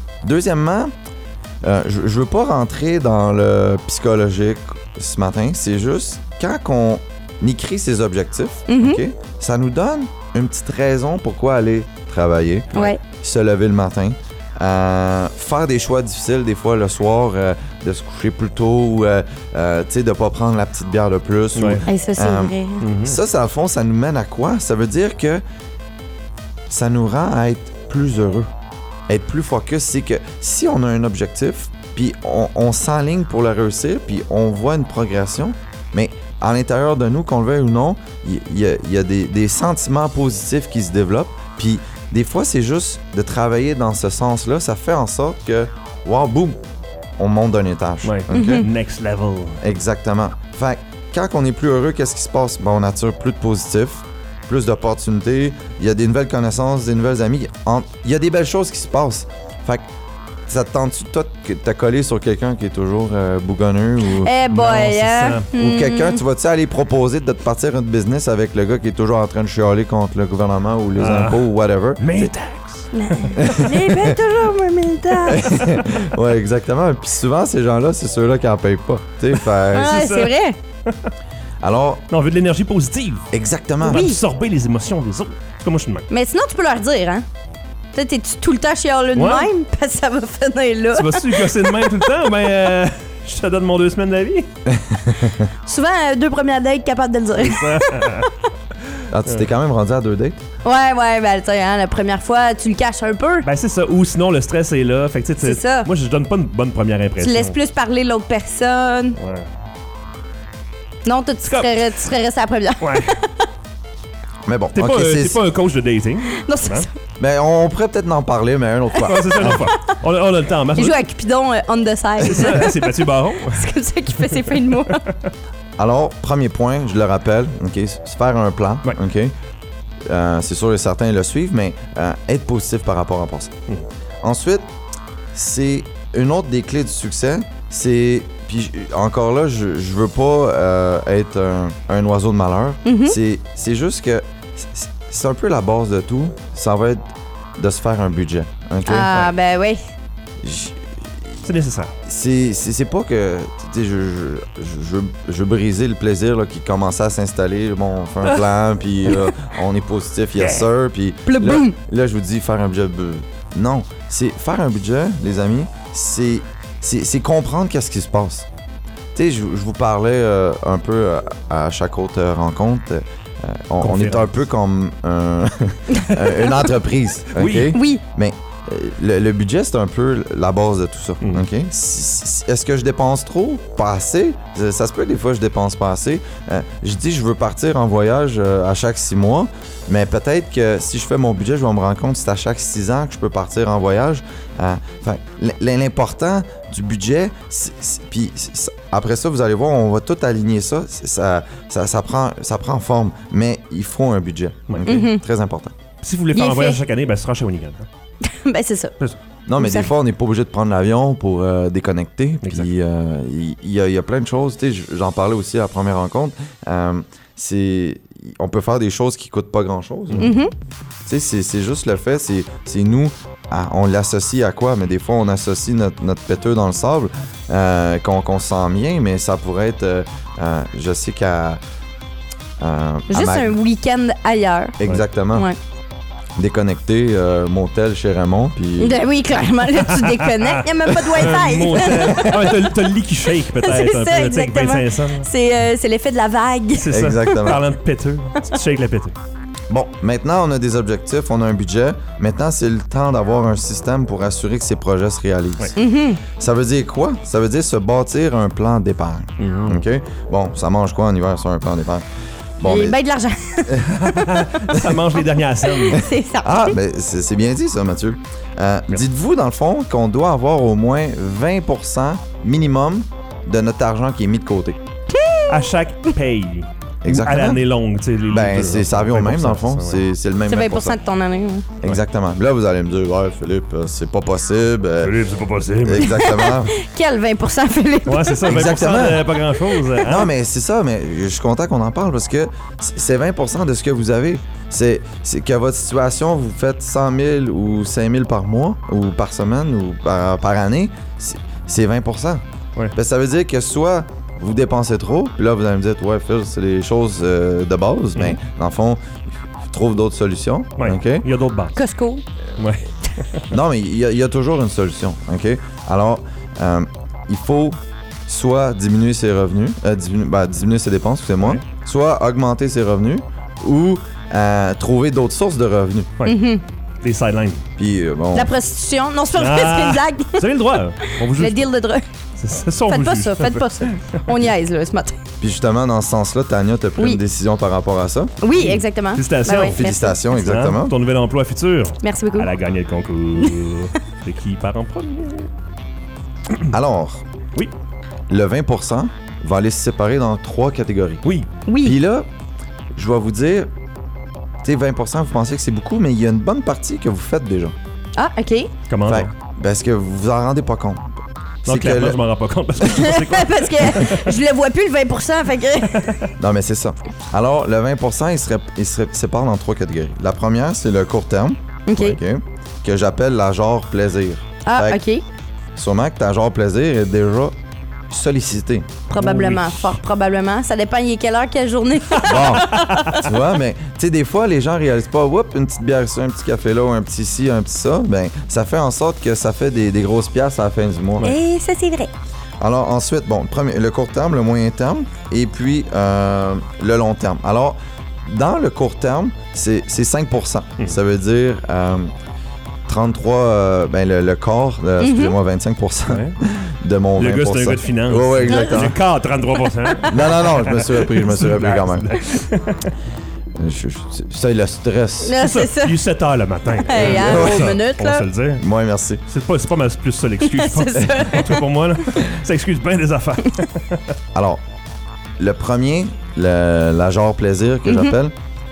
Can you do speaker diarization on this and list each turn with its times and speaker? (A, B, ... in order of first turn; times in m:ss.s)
0:00.2-0:00.9 A
0:01.6-0:25.4 A
0:08.7-0:09.0 B
0:12.7-0:13.0 B
0:21.6-0:21.9 C
0:21.9-0:22.8 B
0:22.8-0:23.2 C
0:26.7-0:28.5 A
0:29.1-0:46.6 A
0:47.2-0:48.7 A
0:48.0-0:49.6 C
0:48.3-0:48.6 B
0:49.6-0:59.9 A
1:00.5-1:04.3 A
1:04.2-1:06.2 B
1:04.5-1:05.5 C
1:05.5-1:12.3 A
1:11.0-1:13.4 C
1:12.9-1:15.7 B
1:13.3-1:14.2 A
1:15.3-1:20.0 A
1:19.7-1:20.3 C
1:19.7-1:20.6 B
1:21.6-1:22.0 A
1:22.1-1:23.3 C
1:23.3-1:24.1 A
1:23.8-1:26.1 C
1:23.8-1:24.2 B
1:26.1-1:27.2 B
1:27.9-1:32.1 B
1:29.2-1:29.5 C
1:30.9-1:34.5 C
1:34.7-1:35.5 A
1:35.6-1:38.3 B
1:37.4-1:38.3 C
1:39.1-1:40.4 A
1:40.6-1:43.4 B
1:43.4-1:47.6 C
1:45.4-1:45.9 B
1:47.2-1:49.2 B
1:49.2-1:49.4 C
1:51.0-1:53.3 B
1:51.4-1:51.7 C
1:52.8-1:53.1 C
1:54.4-1:55.4 A
1:54.7-1:56.9 C
1:56.3-1:56.9 B
1:57.2-1:59.7 A
1:59.0-2:01.0 C
2:00.8-2:02.9 B
2:02.2-2:03.7 C
2:03.4-2:05.0 B
2:05.8-2:09.3 A
2:10.0-2:13.5 A
2:14.2-2:14.7 A
2:15.3-2:29.2 A
2:22.8-2:23.2 B
2:28.8-2:29.8 B
2:30.4-2:31.4 A
2:31.4-2:31.9 C
2:32.0-2:48.5 A
2:41.2-2:41.7 B
2:49.1-3:25.8 A
2:53.8-2:54.3 C
2:55.9-2:56.5 B
2:57.3-2:57.8 C
2:57.7-2:58.0 B
3:24.8-3:25.2 B
3:26.0-3:27.9 C
3:26.3-3:26.8 B
3:28.2-3:29.0 B
3:29.5-3:40.4 A
3:29.6-3:29.9 B
3:32.4-3:32.7 C
3:40.2-3:40.5 B
3:41.0-3:51.6 A
3:52.6-3:53.6 A
3:53.1-3:54.8 B
3:54.8-3:55.5 A
3:56.4-3:59.0 A
3:58.8-4:02.6 B
3:59.8-4:05.3 C
4:03.6-4:07.5 B
4:06.8-4:09.1 C
4:06.9-4:07.6 A
4:09.7-4:15.8 A
4:15.8-4:16.2 B
4:16.3-4:22.0 A
4:19.4-4:19.8 C
4:22.6-4:23.0 A
4:22.6-4:24.2 B
4:23.7-4:23.9 A
4:23.8-4:26.0 C
4:24.7-4:25.0 A
4:25.6-4:26.8 B
4:25.9-4:34.8 A
4:35.1-4:35.7 B
4:35.5-4:40.0 C
4:37.0-4:37.6 A
4:38.3-4:41.0 A
4:40.5-4:41.7 B
4:41.8-4:45.2 A
4:45.0-4:46.3 C
4:45.8-4:46.7 A
4:46.0-4:48.5 B
4:48.0-4:50.3 C
4:48.4-4:49.4 A
4:49.6-4:50.1 B
4:50.0-5:02.4 A
5:02.9-5:09.0 A
5:09.7-5:11.3 A
5:10.8-5:11.8 C
5:11.8-5:12.2 B
5:12.6-5:13.4 C
5:13.5-5:17.8 A
5:18.3-5:26.1 A
5:26.2-5:26.6 B
5:27.0-5:27.6 C
5:27.8-5:28.5 A
5:28.3-5:32.0 B
5:29.4-5:31.7 C
5:32.4-5:34.3 C
5:32.9-5:35.2 B
5:35.4-5:38.3 A
5:38.4-5:40.2 B
5:38.5-5:45.5 C
5:39.6-5:40.9 A
5:42.0-5:42.5 B
5:46.7-5:47.2 A
5:48.3-5:51.2 A
5:51.7-5:52.0 B
5:51.8-5:52.3 A
5:52.9-5:53.7 A
5:54.6-5:57.7 A
5:58.2-5:58.7 B
5:58.9-5:59.3 C
5:59.1-6:01.1 A
6:01.6-6:02.2 A
6:01.6-6:04.3 C
6:02.8-6:06.1 B
6:05.8-6:06.3 C
6:06.4-6:15.0 A
6:11.9-6:12.2 B
6:14.6-6:15.2 B
6:15.8-6:17.5 A
6:18.1-6:19.0 A
6:19.1-6:23.3 B
6:19.1-6:20.0 C
6:22.1-6:23.3 C
6:22.2-6:31.3 A
6:31.2-6:32.1 B
6:32.6-6:42.1 A
6:42.9-6:49.0 A
6:45.0-6:45.4 B
6:46.1-6:46.4 C
6:47.2-6:52.9 C
6:48.5-6:48.9 B
6:49.8-6:50.2 B
6:50.1-6:52.2 A
6:53.6-6:55.4 A
6:55.2-6:56.0 B
6:55.4-6:58.6 C
6:56.8-6:58.2 B
6:57.0-6:57.8 A
6:58.6-6:59.2 A
6:59.3-7:04.0 C
7:00.4-7:01.6 B
7:04.3-7:04.6 A
7:05.4-7:08.3 A
7:07.8-7:08.1 B